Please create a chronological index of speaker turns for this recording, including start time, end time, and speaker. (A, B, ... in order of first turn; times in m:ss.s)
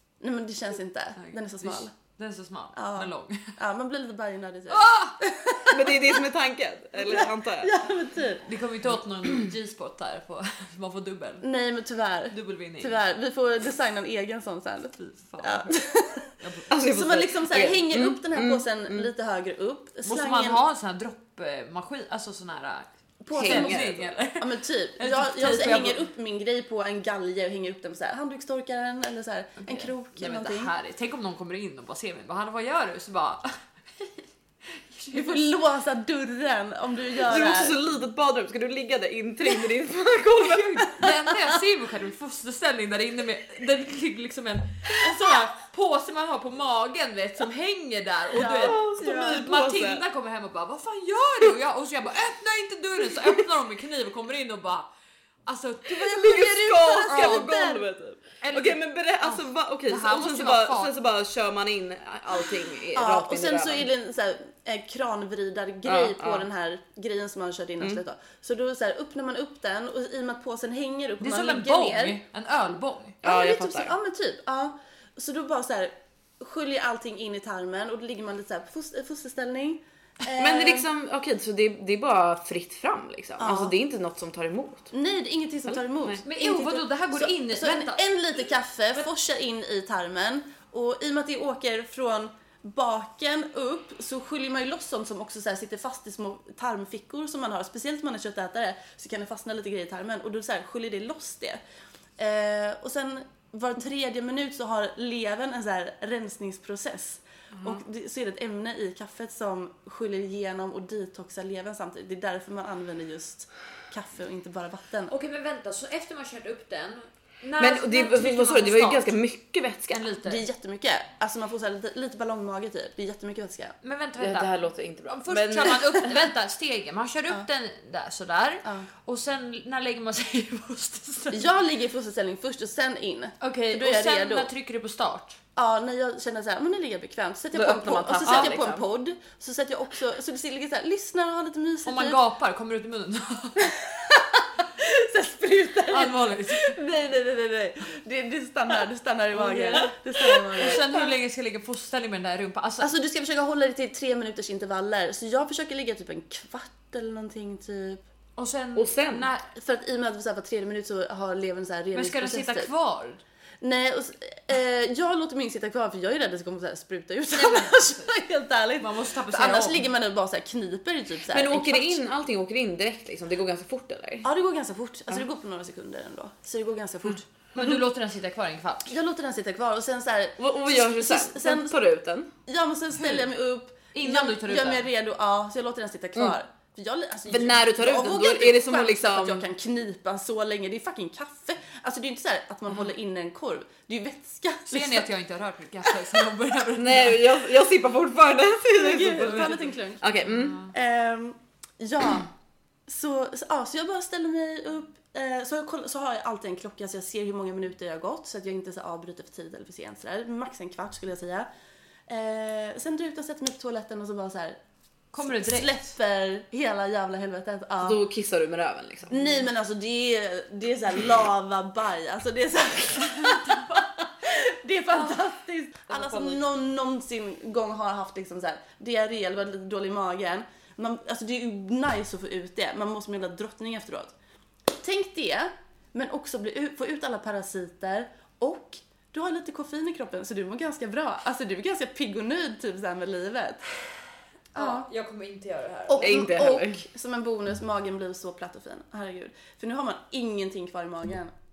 0:00.2-0:01.9 A
0:01.2-0:03.6 B
0:02.8-0:04.8 A
0:04.7-0:05.7 B
0:05.7-0:07.7 C
0:07.0-0:08.5 A
0:08.5-0:11.5 B
0:11.4-0:16.3 A
0:12.3-0:13.0 B
0:15.0-0:16.7 B
0:16.7-0:19.1 C
0:16.8-0:20.6 A
0:20.0-0:26.0 B
0:23.2-0:23.8 A
0:23.3-0:24.1 C
0:24.4-0:30.7 A
0:29.6-0:33.5 B
0:34.8-0:35.5 B
0:35.1-0:37.8 A
0:37.2-0:41.1 C
0:40.4-0:54.9 B
0:48.3-0:49.4 A
0:48.5-0:50.0 C
0:55.5-0:57.7 B
0:56.0-1:03.9 C
0:56.7-0:57.8 A
0:58.4-1:00.9 B
1:02.9-1:12.2 A
1:05.9-1:06.4 C
1:11.2-1:13.2 B
1:13.2-1:20.9 A
1:13.2-1:13.9 C
1:20.4-1:24.9 C
1:23.4-1:23.7 A
1:24.9-1:41.6 A
1:26.2-1:28.0 B
1:42.2-1:55.1 A
1:55.1-1:59.2 B
1:57.6-2:00.1 C
1:59.9-2:00.4 B
2:00.2-2:03.8 A
2:03.8-2:11.5 B
2:04.2-2:06.1 C
2:11.3-2:14.5 A
2:13.4-2:15.4 B
2:15.6-2:22.2 A
2:17.5-2:18.8 C
2:18.2-2:18.6 B
2:21.9-2:23.8 B
2:23.9-2:24.2 A
2:24.8-2:31.0 A
2:25.9-2:26.8 B
2:29.3-2:29.9 B
2:30.6-2:32.9 B
2:32.8-2:38.0 A
2:38.4-2:39.5 B
2:38.8-2:39.3 C
2:39.5-2:42.7 A
2:42.0-2:43.2 B
2:43.6-2:52.0 A
2:47.3-2:48.1 B
2:48.8-2:49.9 B
2:51.3-2:54.3 C
2:54.2-2:57.3 A
2:57.6-2:59.0 B
2:58.9-3:01.8 A
3:00.4-3:02.3 C
3:02.5-3:15.1 A
3:03.0-3:03.3 B
3:03.9-3:04.9 B
3:07.3-3:09.4 C
3:14.7-3:17.5 B
3:15.9-3:16.2 A
3:16.7-3:20.7 C
3:18.7-3:22.3 A
3:19.2-3:19.6 B
3:22.9-3:31.5 A
3:32.1-3:34.6 A
3:35.1-3:35.7 B
3:35.2-3:38.0 A
3:37.8-3:39.2 C
3:39.1-3:54.1 A
3:43.2-3:43.8 B
3:45.9-3:46.4 B
3:54.7-4:03.6 A
4:04.5-4:06.1 B
4:04.6-4:04.9 A
4:05.9-4:11.3 A
4:06.0-4:06.8 C